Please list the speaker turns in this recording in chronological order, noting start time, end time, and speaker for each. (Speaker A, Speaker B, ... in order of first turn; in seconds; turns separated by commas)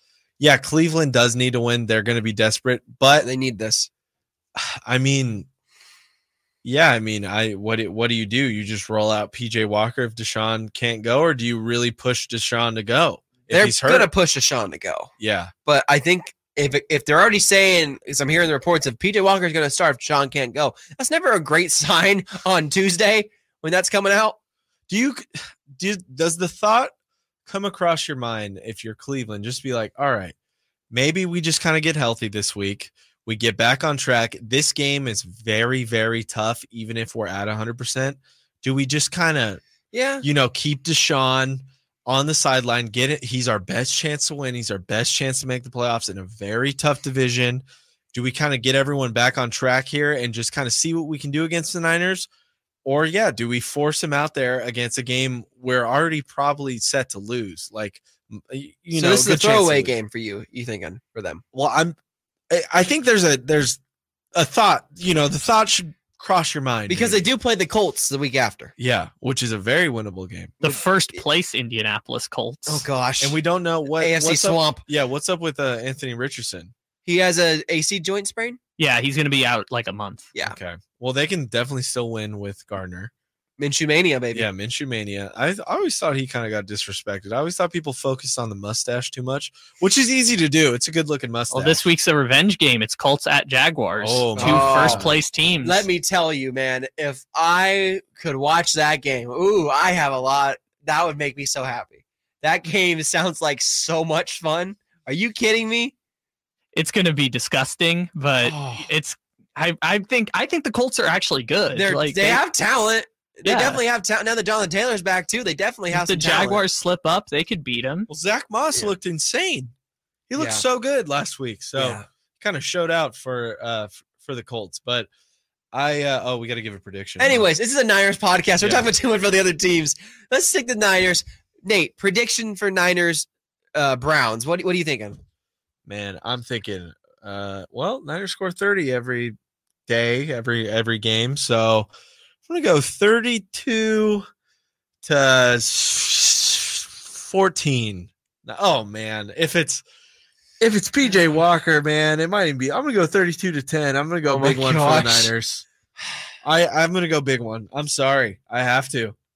Speaker A: 0.4-3.3, Speaker B: 3.1-3.9, Speaker A: 4.5-5.5, Speaker A: 6.6-14.1, Speaker B: 13.5-15.1, Speaker A: 15.2-15.5, Speaker B: 15.7-24.4, Speaker A: 24.9-26.9, Speaker A: 27.5-30.3, Speaker A: 30.9-39.6, Speaker B: 39.9-40.2, Speaker A: 40.2-52.3, Speaker A: 52.8-60.0, Speaker B: 58.9-61.4, Speaker A: 61.5-62.0, Speaker A: 62.5-63.8, Speaker A: 64.3-67.2, Speaker B: 66.9-68.7, Speaker A: 68.8-70.6, Speaker B: 70.6-71.2, Speaker C: 70.6-72.9, Speaker B: 72.7-73.4, Speaker A: 73.2-76.7, Speaker B: 74.0-74.8, Speaker B: 77.0-78.6, Speaker C: 78.8-80.3, Speaker A: 80.4-83.1, Speaker B: 83.6-84.5, Speaker A: 84.3-91.8, Speaker C: 91.5-95.9, Speaker A: 94.0-95.1, Speaker B: 94.4-95.1, Speaker B: 95.6-105.9, Speaker C: 106.8-112.4, Speaker B: 108.4-108.9, Speaker B: 111.7-116.6, Speaker C: 113.5-113.8, Speaker C: 115.9-118.1, Speaker A: 118.1-119.7, Speaker A: 120.3-125.1, Speaker B: 120.4-120.6, Speaker B: 121.8-122.1, Speaker A: 125.7-127.5, Speaker B: 127.2-135.2, Speaker A: 128.6-128.9, Speaker A: 135.9-139.4, Speaker A: 139.9-141.9, Speaker A: 142.5-144.3, Speaker A: 145.0-149.8, Speaker A: 150.6-155.7, Speaker B: 154.3-155.3, Speaker A: 156.4-159.2